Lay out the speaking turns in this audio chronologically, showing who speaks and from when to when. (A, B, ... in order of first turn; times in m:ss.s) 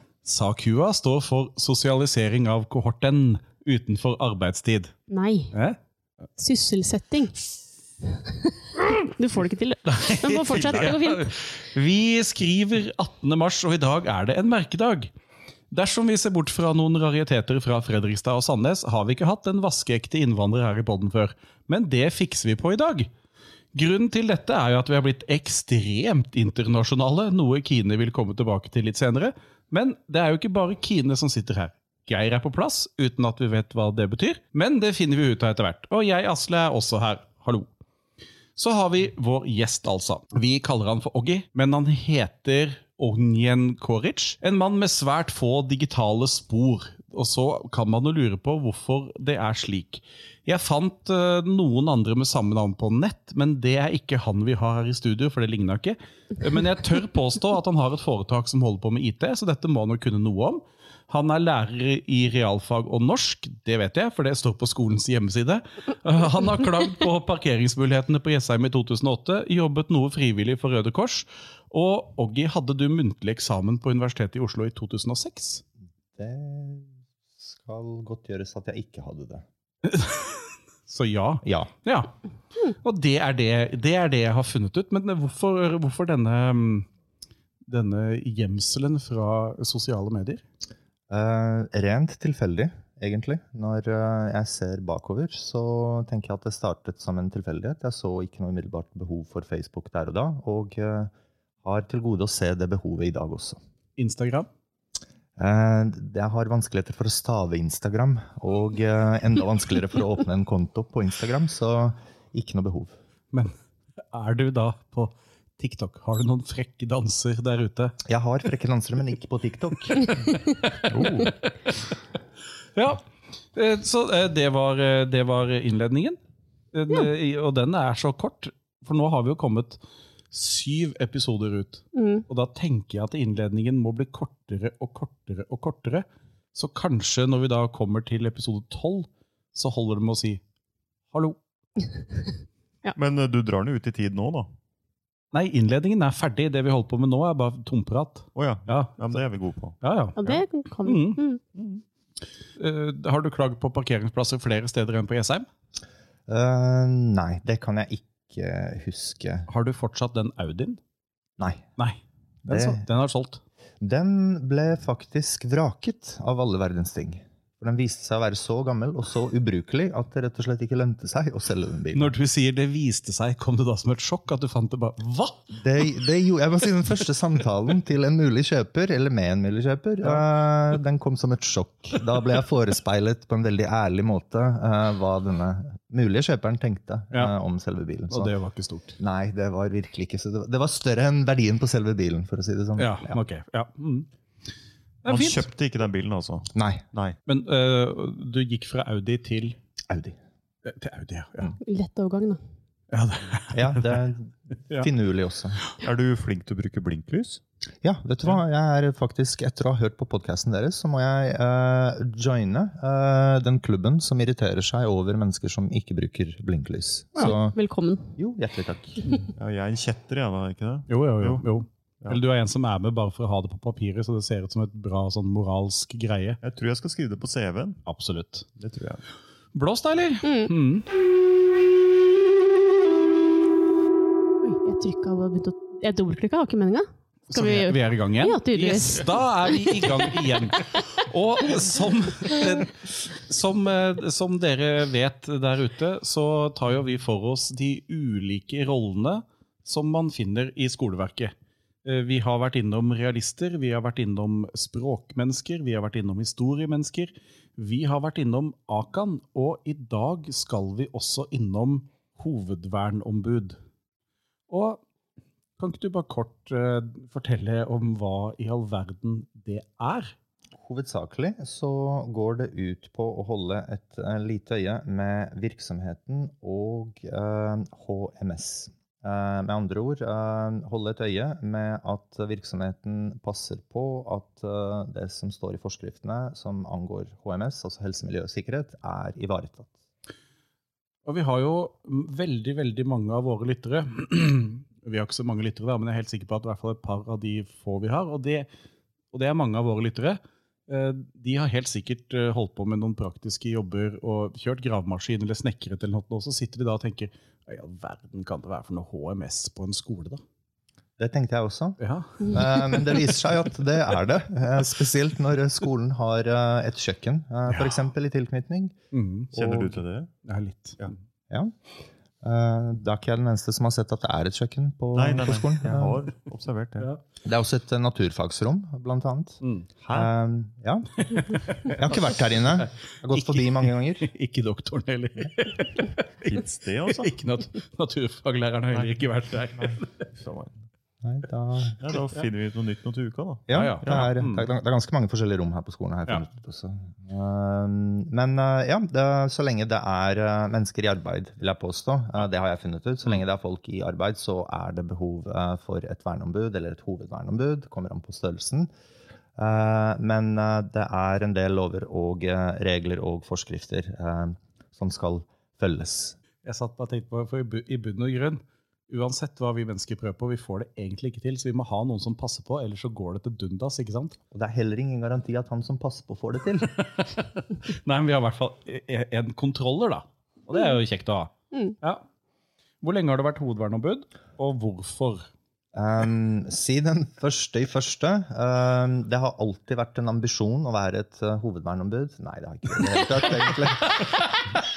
0:00.2-0:04.9 A
0:05.1-0:05.5 B
0:05.5-0:05.8 A
0:06.4-0:07.4 B
0:08.8-0:11.3 B
0:09.8-0:15.1 A
0:10.6-0:10.9 C
0:15.7-0:23.1 A
0:23.7-0:37.7 A
0:38.6-1:15.6 A
1:16.1-1:19.4 D
1:19.8-1:22.1 A
1:21.4-1:21.7 D
1:22.7-1:26.9 A
1:27.7-1:30.4 A
1:31.1-1:41.1 D
1:41.6-1:43.6 D
1:44.0-1:44.5 A
1:45.4-1:52.9 D
1:54.1-1:58.0 A
1:58.0-2:00.2 D
2:00.9-2:01.3 C
2:00.9-2:01.3 A
2:02.8-2:03.0 A
2:03.5-2:06.2 A
2:06.7-2:09.8 A
2:10.3-2:20.4 A
2:11.9-2:12.2 B
2:21.1-2:21.4 A
2:23.0-2:24.5 C
2:25.3-2:29.2 A
2:28.3-2:30.4 C
2:29.8-2:30.2 A
2:30.2-2:31.4 B
2:30.8-2:31.2 A
2:31.5-2:31.8 C
2:32.6-2:35.5 A
2:36.3-2:39.5 D
2:39.5-2:40.8 A
2:41.4-2:41.7 D
2:41.8-2:43.4 A
2:42.5-2:42.8 D
2:43.8-2:52.1 D
2:51.9-2:55.5 A
2:55.5-3:08.3 D
3:08.1-3:09.0 A
3:09.0-3:13.2 D
3:12.8-3:14.1 A
3:15.0-3:15.4 A
3:15.1-3:17.2 C
3:16.5-3:16.8 D
3:17.2-3:19.6 A
3:19.9-3:20.2 D
3:20.6-3:21.5 A
3:21.6-3:22.4 B
3:22.9-3:24.0 A
3:23.5-3:25.6 D
3:25.8-3:27.4 C
3:27.8-3:37.6 D
3:37.2-3:38.1 B
3:38.2-3:39.2 D
3:39.4-3:41.5 C
3:40.9-3:46.4 A
3:46.4-3:47.8 C
3:47.8-3:48.4 A
3:48.6-3:49.0 C
3:49.5-3:50.8 A
3:50.2-3:50.5 B
3:54.4-4:00.2 B
3:57.3-4:23.6 A
4:24.5-4:24.8 A
4:25.6-4:30.1 A
4:30.6-4:49.7 D
4:51.0-4:58.5 A
4:59.1-5:10.2 A
5:11.0-5:18.7 D
5:11.8-5:12.4 A
5:18.9-5:19.3 A
5:19.3-5:19.8 D
5:19.3-5:20.1 C
5:20.2-5:20.9 A
5:22.2-5:26.0 D
5:24.9-5:26.9 C
5:27.2-5:34.1 D
5:29.4-5:29.7 A
5:31.0-5:40.0 A
5:36.2-5:37.2 C
5:38.7-5:40.6 C
5:41.0-5:41.9 D
5:41.8-5:44.1 C
5:43.5-5:58.7 D
5:43.5-5:44.5 A
5:59.4-6:06.2 D
6:06.4-6:14.2 A
6:14.3-6:16.7 D
6:16.7-6:22.0 A
6:22.8-6:25.3 A
6:25.7-6:34.2 D